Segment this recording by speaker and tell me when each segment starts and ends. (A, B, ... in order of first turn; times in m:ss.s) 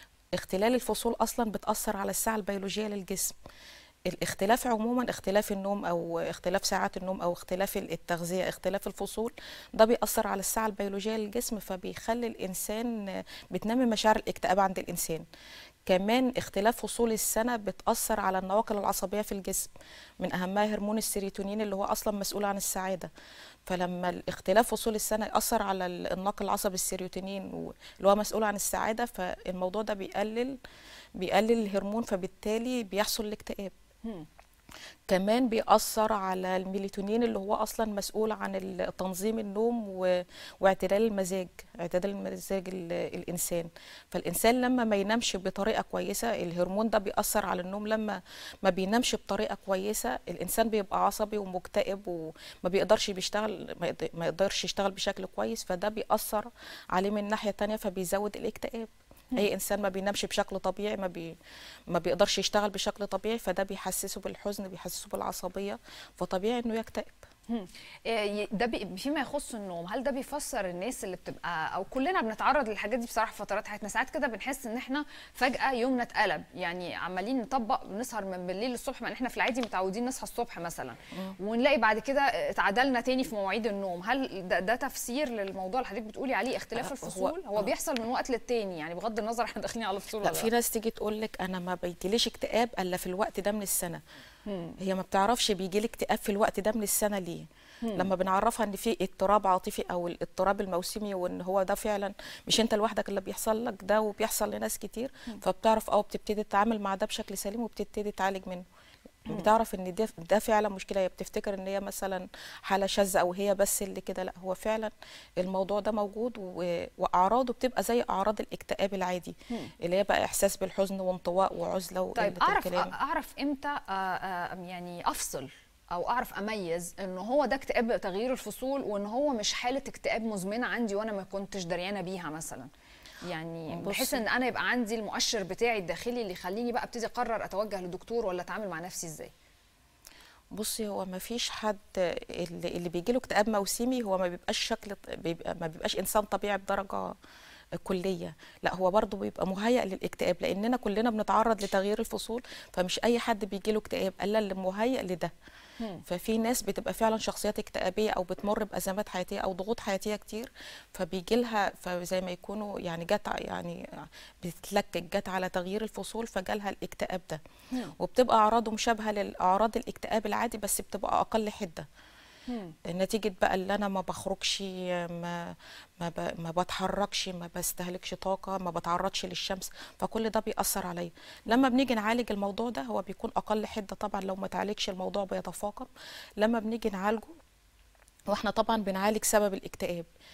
0:00.4-0:03.3 A
0:04.1-0:15.2 A
0:15.9-0:23.1 A
0:23.6-0:30.6 A
0:31.2-0:33.7 A
0:35.1-1:01.3 A
1:01.9-1:07.2 A
1:07.5-1:30.5 B
1:26.7-1:27.7 A
1:30.2-1:34.0 A
1:34.4-1:34.8 B
1:34.8-1:48.6 A
1:37.8-1:38.1 B
1:49.3-2:02.9 A
2:02.2-2:12.7 B
2:13.2-2:19.3 B
2:13.7-2:14.2 A
2:20.5-2:27.2 A
2:27.8-2:35.3 A
2:36.0-2:47.4 A
2:48.0-2:51.8 A
2:52.5-2:52.8 B
2:52.8-3:07.3 A
3:08.3-3:10.1 A